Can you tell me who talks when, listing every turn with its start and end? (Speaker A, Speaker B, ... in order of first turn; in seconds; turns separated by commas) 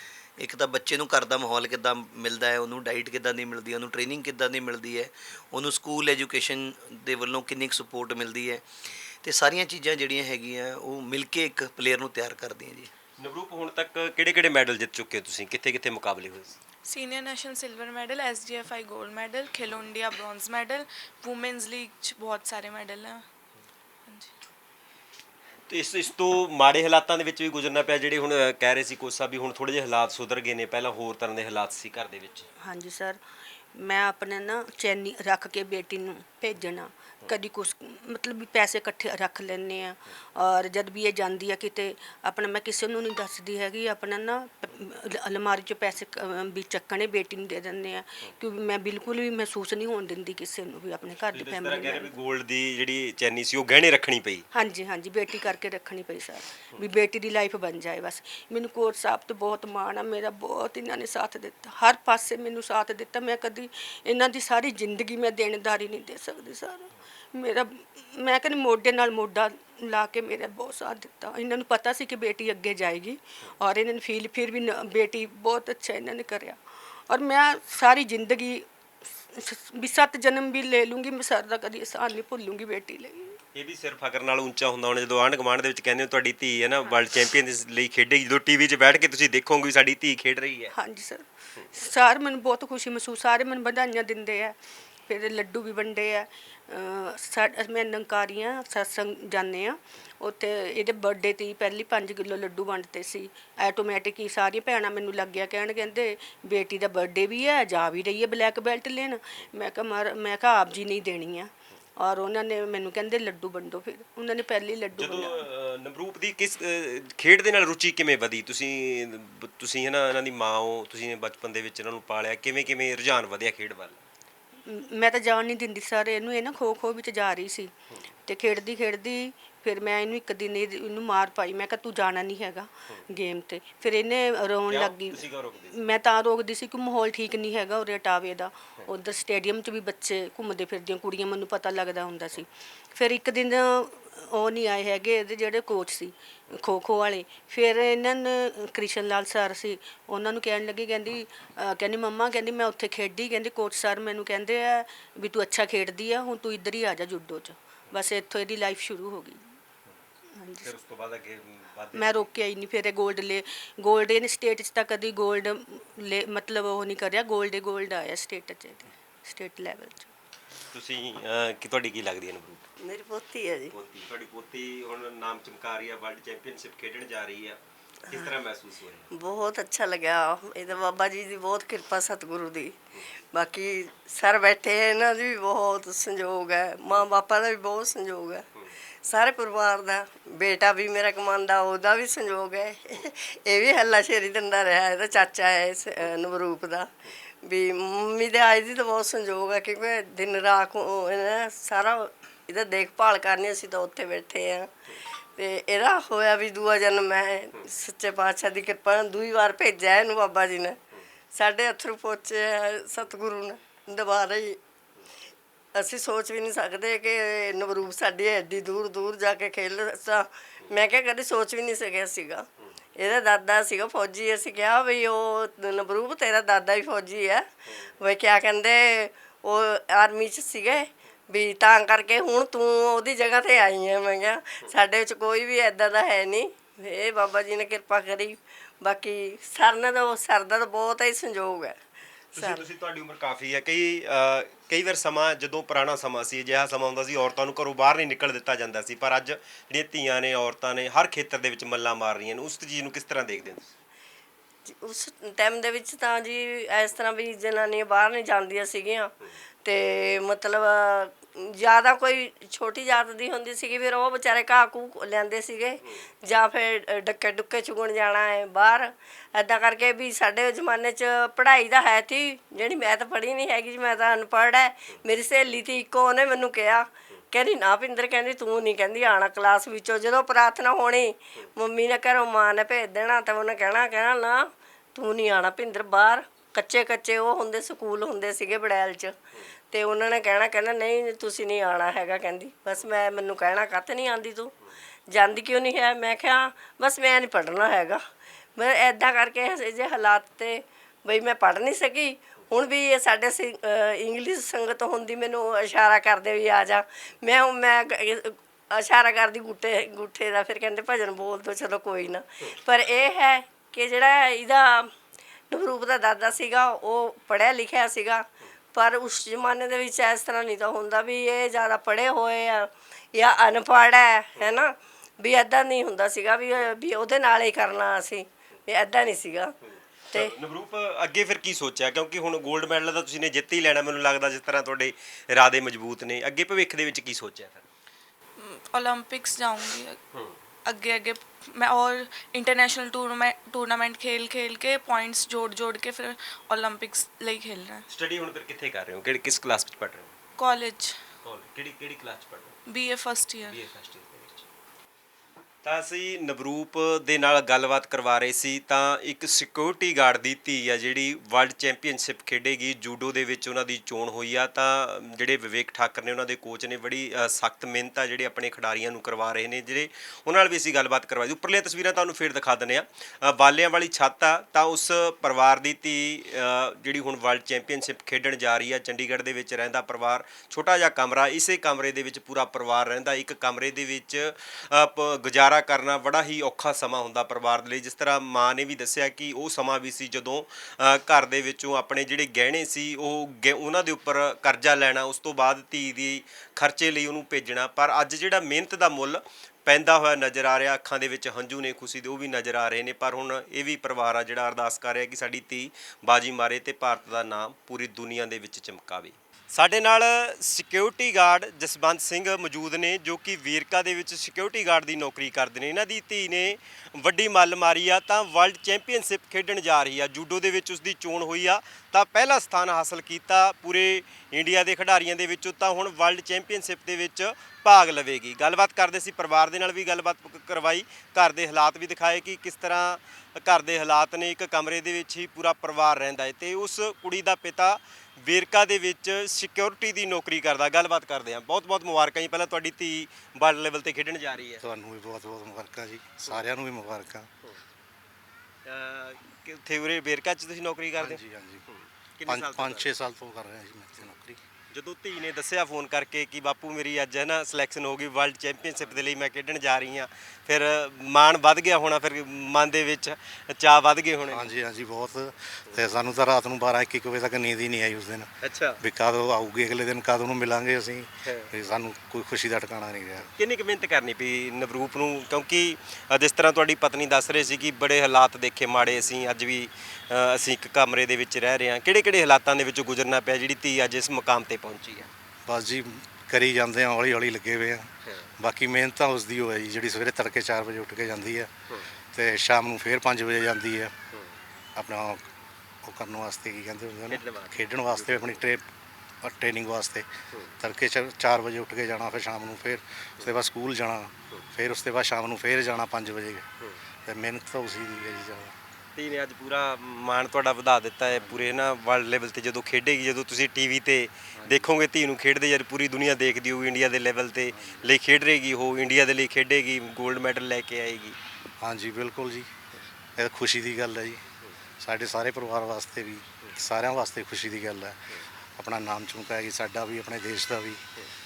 Speaker A: 0.4-8.6, Speaker A: 9.2-12.9, Speaker B: 13.2-16.6, Speaker C: 16.8-23.2, Speaker C: 24.1-24.3, Speaker B: 25.7-32.5, Speaker D: 32.6-33.2, Speaker D: 33.7-52.1, Speaker B: 51.3-54.5, Speaker D: 54.5-83.4, Speaker B: 83.5-90.7, Speaker D: 90.7-94.5, Speaker D: 95.1-115.4, Speaker B: 115.0-124.0, Speaker D: 124.7-127.7, Speaker D: 128.3-159.4, Speaker B: 134.7-135.8, Speaker D: 160.4-160.7, Speaker B: 160.6-162.3, Speaker D: 161.9-170.1, Speaker B: 170.7-172.6, Speaker E: 172.8-173.7, Speaker B: 173.7-177.6, Speaker B: 178.1-179.1, Speaker E: 179.1-188.4, Speaker E: 189.0-196.9, Speaker E: 197.4-204.7, Speaker E: 205.3-210.8, Speaker E: 211.3-214.6, Speaker E: 215.7-222.4, Speaker E: 223.0-227.4, Speaker E: 228.0-241.8, Speaker E: 242.3-242.6, Speaker B: 242.3-253.7, Speaker E: 254.7-259.1, Speaker E: 259.6-289.2, Speaker E: 289.7-294.5, Speaker E: 295.1-298.0, Speaker E: 298.6-314.9, Speaker E: 315.5-329.5, Speaker B: 329.6-337.6, Speaker C: 338.4-340.0, Speaker C: 340.6-347.9, Speaker B: 347.9-350.1, Speaker C: 350.4-351.0, Speaker B: 351.2-352.6, Speaker C: 352.7-353.6, Speaker B: 353.4-354.5, Speaker B: 355.6-444.6, Speaker F: 444.6-447.3, Speaker B: 448.6-452.9, Speaker F: 451.0-451.6, Speaker F: 452.2-454.4, Speaker B: 454.7-464.5, Speaker F: 464.3-468.3, Speaker B: 468.4-468.8, Speaker F: 468.8-473.3, Speaker B: 471.2-471.5, Speaker B: 473.4-485.1, Speaker F: 478.8-479.1, Speaker F: 485.5-491.5, Speaker B: 491.7-491.9, Speaker F: 492.1-493.9, Speaker B: 494.1-494.4, Speaker F: 494.8-495.2, Speaker F: 495.8-498.7, Speaker B: 497.1-498.5, Speaker F: 499.2-500.1, Speaker F: 500.6-506.4, Speaker F: 507.1-508.6, Speaker B: 508.9-521.2, Speaker F: 511.1-511.5, Speaker F: 514.4-514.7, Speaker F: 517.5-517.9, Speaker F: 521.6-522.5, Speaker F: 523.2-524.2, Speaker F: 524.8-530.8